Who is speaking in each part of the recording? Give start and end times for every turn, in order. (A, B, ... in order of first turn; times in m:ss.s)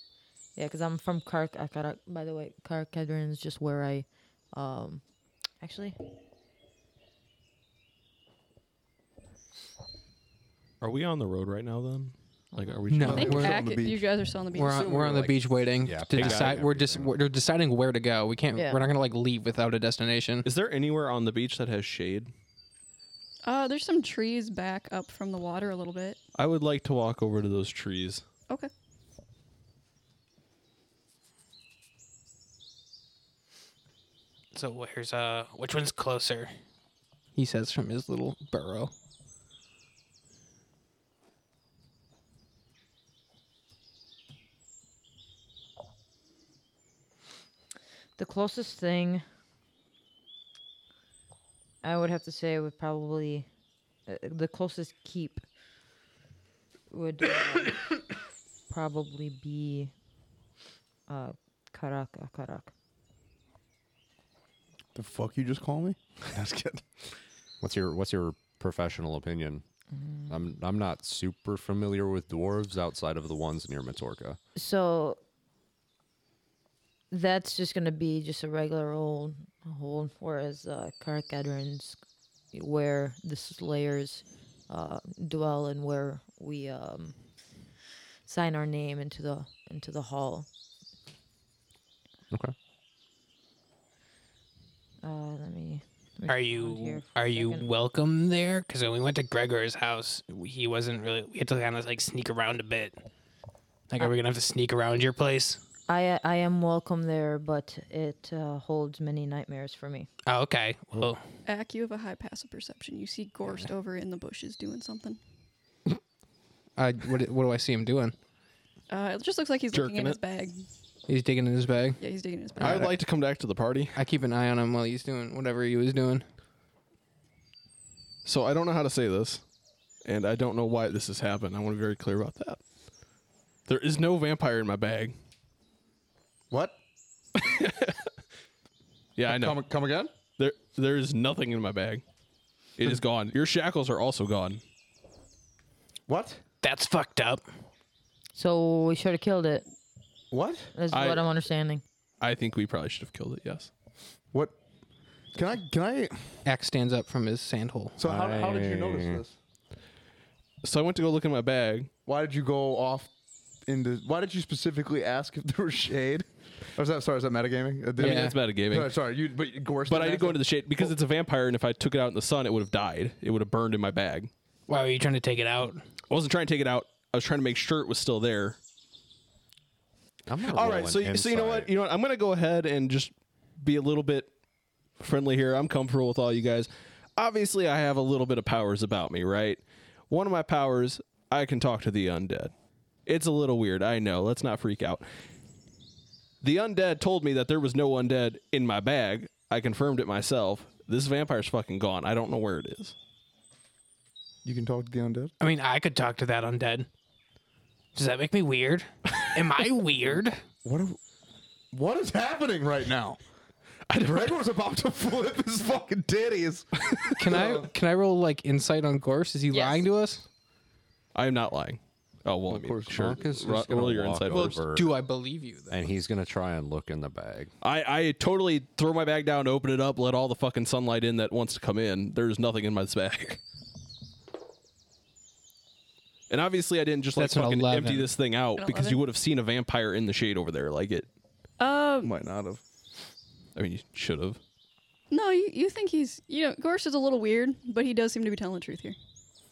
0:00.6-0:05.0 A
0:05.6-0:06.0 A
0:10.8-0:13.5 B
0:12.5-0:12.8 A
0:12.9-0:13.6 C
0:12.9-0:14.1 D
0:13.1-0:15.2 E
0:14.5-0:20.5 C
0:14.6-0:17.2 F
0:16.1-0:16.6 B
0:18.6-0:18.9 A
0:20.4-0:22.3 B
0:23.4-0:26.2 E
0:26.4-0:28.2 B
0:34.5-0:36.5 C
0:37.4-0:38.9 C
0:48.2-0:49.2 A
0:51.8-0:53.5 A
0:54.1-0:55.4 A
0:56.9-0:58.0 A
0:58.7-0:59.9 A
1:01.1-1:02.7 A
1:05.0-1:06.9 D
1:07.6-1:09.6 F
1:10.3-1:14.4 F
1:14.6-1:15.2 A
1:17.1-1:22.0 A
1:22.5-1:27.2 A
1:28.3-1:30.5 A
1:35.0-1:37.7 A
1:36.3-1:43.0 C
1:43.9-1:45.6 C
1:45.9-1:50.1 A
1:50.3-1:51.2 C
1:51.4-1:55.2 E
1:56.8-1:58.2 C
1:58.9-2:00.7 E
1:59.7-2:00.2 B
2:01.1-2:02.0 C
2:02.0-2:03.0 E
2:02.6-2:04.0 B
2:02.6-2:03.0 C
2:04.0-2:06.3 C
2:08.2-2:09.4 B
2:10.0-2:12.6 B
2:13.7-2:15.2 B
2:16.5-2:16.8 D
2:17.4-2:18.0 B
2:19.2-2:19.6 B
2:19.3-2:20.1 D
2:20.4-2:22.0 B
2:22.8-2:24.6 B
2:26.1-2:26.4 D
2:26.6-2:27.4 C
2:28.4-2:29.6 A
2:30.3-2:30.7 D
2:30.8-2:31.8 A
2:30.9-2:31.3 B
2:32.2-2:33.7 B
2:35.3-2:36.4 D
2:36.4-2:38.0 C
2:38.0-2:39.4 D
2:38.0-2:39.2 F
2:40.6-2:41.9 B
2:42.1-2:43.1 D
2:43.7-2:50.9 D
2:48.0-2:48.4 C
2:48.0-2:48.9 B
2:49.9-2:54.3 B
2:54.7-2:55.8 C
2:56.1-2:58.6 B
3:00.3-3:01.7 F
3:00.5-3:04.3 B
3:05.0-3:12.5 B
3:13.1-3:15.0 B
3:16.4-3:23.0 B
3:24.4-3:25.3 D
3:25.4-3:26.9 C
3:28.0-3:30.4 C
3:30.6-3:31.0 D
3:31.7-3:33.2 D
3:33.9-3:37.7 D
3:37.2-3:40.3 C
3:39.5-3:39.8 E
3:41.1-3:44.6 B
3:42.5-3:43.9 D
3:42.9-3:45.0 F
3:44.3-3:45.9 C
3:45.7-3:47.5 F
3:47.6-3:53.4 B
3:56.3-4:01.1 B
3:57.2-3:58.2 C
3:58.6-3:59.0 E
4:01.6-4:02.1 E
4:02.0-4:02.6 D
4:03.6-4:04.4 B
4:05.1-4:09.0 E